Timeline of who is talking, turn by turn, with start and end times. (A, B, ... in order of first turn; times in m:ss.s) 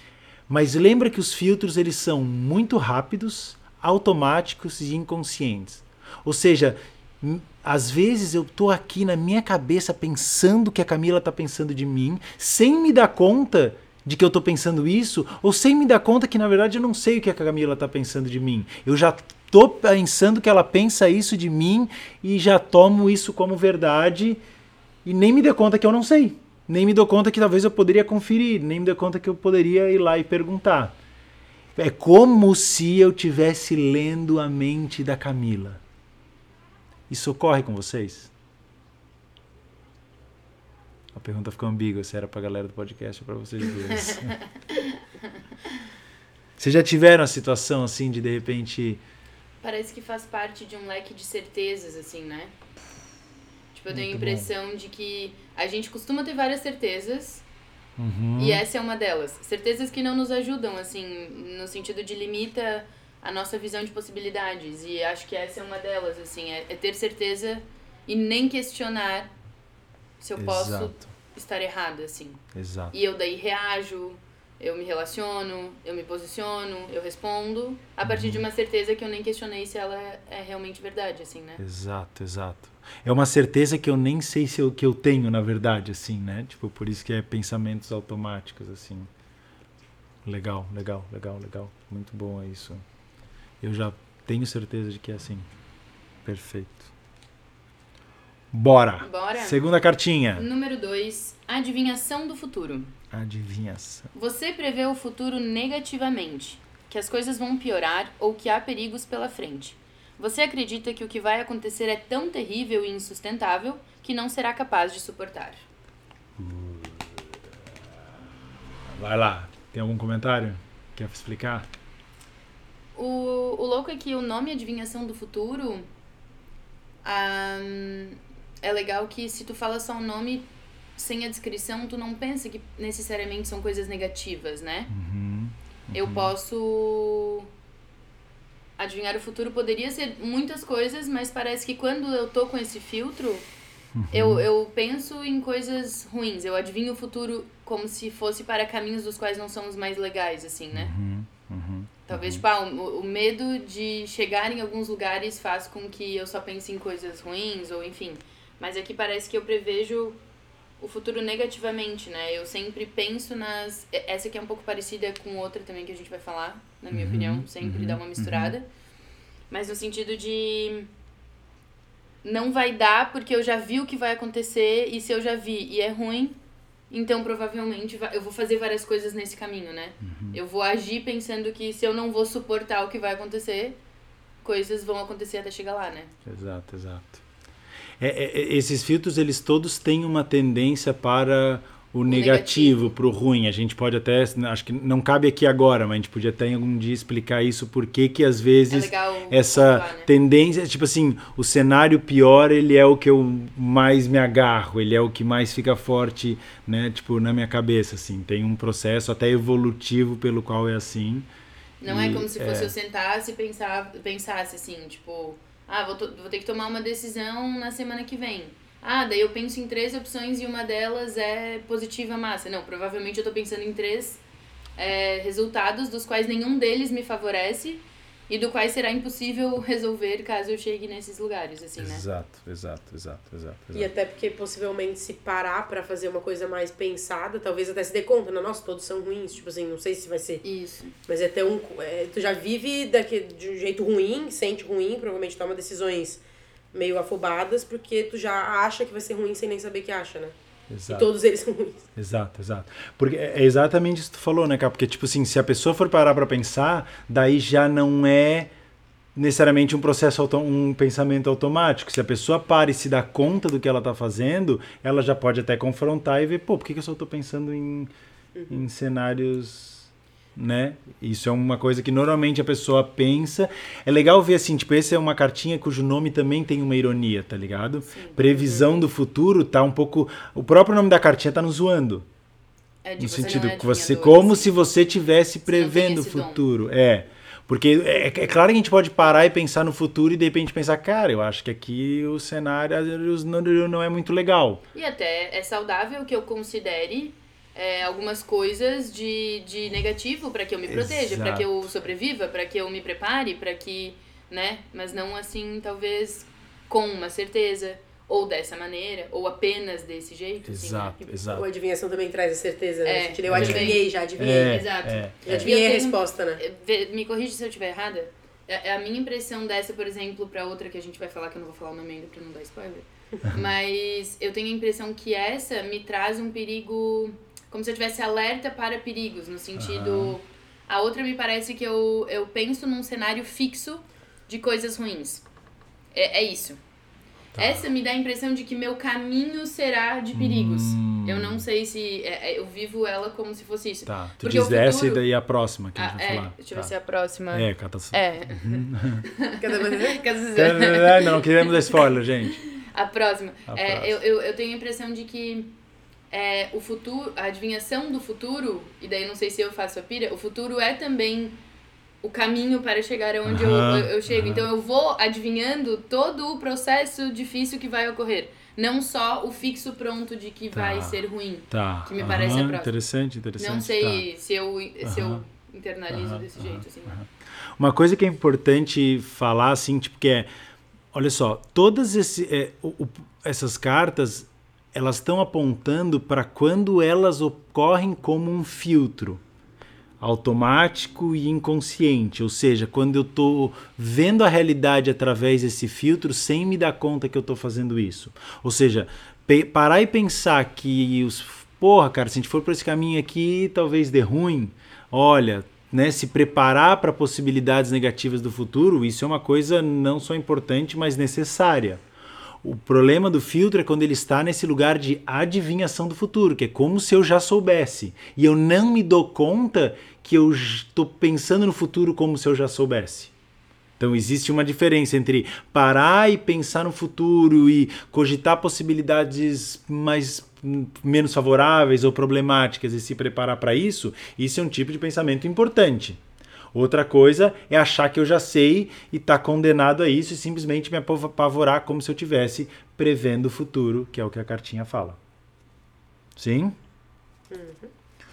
0:00.5-0:24.4 A
0:25.0-0:30.9 A
0:31.8-0:35.8 A
0:37.1-0:38.3 A
0:41.1-0:44.4 A
0:43.8-0:45.0 B
0:46.6-0:49.0 A
0:49.6-0:52.5 B
0:53.7-0:57.4 B
0:53.9-0:54.5 A
0:58.0-0:58.6 A
0:58.4-1:09.3 B
1:10.2-1:12.4 B
1:10.4-1:11.0 A
1:12.5-1:13.0 A
1:12.9-1:21.6 B
1:18.0-1:18.4 A
1:21.6-1:29.1 A
1:30.2-1:32.8 A
1:33.6-1:35.4 A
1:36.2-1:36.9 A
1:38.5-1:40.4 A
1:39.0-1:39.6 B
1:40.3-1:42.9 B
1:43.1-1:44.1 A
1:44.1-1:55.6 B
1:56.4-1:57.2 A
1:58.9-2:01.7 A
2:02.9-2:05.8 B
2:07.0-2:14.9 B
2:14.9-2:16.3 A
2:15.9-2:17.5 B
2:18.8-2:23.4 B
2:24.0-2:24.4 A
2:24.1-2:30.9 B
2:30.7-2:32.4 A
2:32.1-2:40.2 B
2:40.8-2:48.6 B
2:46.9-2:48.5 A
2:49.5-2:50.9 B
2:52.2-2:56.4 B
2:56.9-3:03.8 B
3:00.0-3:00.4 A
3:04.4-3:06.1 B
3:06.2-3:07.2 A
3:08.0-3:31.3 A
3:12.1-3:12.9 B
3:18.7-3:20.1 B
3:31.8-3:44.2 B
3:31.8-3:32.7 A
3:44.8-3:52.0 B
3:51.8-3:53.9 A
3:53.7-4:00.4 C
4:00.4-4:01.0 B
4:01.1-4:06.2 C
4:06.7-4:10.4 C
4:10.7-4:11.1 A
4:10.9-4:11.8 C
4:12.0-4:18.5 A
4:19.2-4:27.9 A
4:28.4-4:28.6 C
4:28.5-4:42.0 A
4:37.9-4:38.2 B
4:42.8-4:44.6 B
4:43.0-4:54.6 A
4:45.4-4:46.4 B
4:54.7-5:11.0 B
5:00.7-5:01.7 A
5:10.5-5:11.5 A
5:11.0-5:14.6 C
5:12.8-5:35.2 B
5:13.3-5:15.5 A
5:15.2-5:16.4 C
5:29.6-5:30.2 A
5:35.9-5:36.6 B
5:37.3-5:37.7 A
5:37.4-5:45.0 B
5:40.1-5:41.4 A
5:43.8-5:46.7 A
5:45.7-5:51.8 B
5:47.3-5:49.0 A
5:49.4-5:50.0 C
5:50.3-5:52.4 A
5:52.4-5:55.5 B
5:53.5-5:54.0 A
5:56.1-6:01.4 B
6:02.0-6:12.7 B
6:03.2-6:04.5 A
6:10.5-6:11.0 A
6:11.5-6:14.0 A
6:13.4-6:17.0 B
6:14.8-6:15.2 A
6:15.9-6:20.3 A
6:20.9-6:29.2 A
6:30.0-6:51.8 A
6:52.4-7:03.1 A
7:03.8-7:16.0 A
7:16.5-7:25.0 A
7:26.2-7:26.6 A
7:27.3-7:27.7 C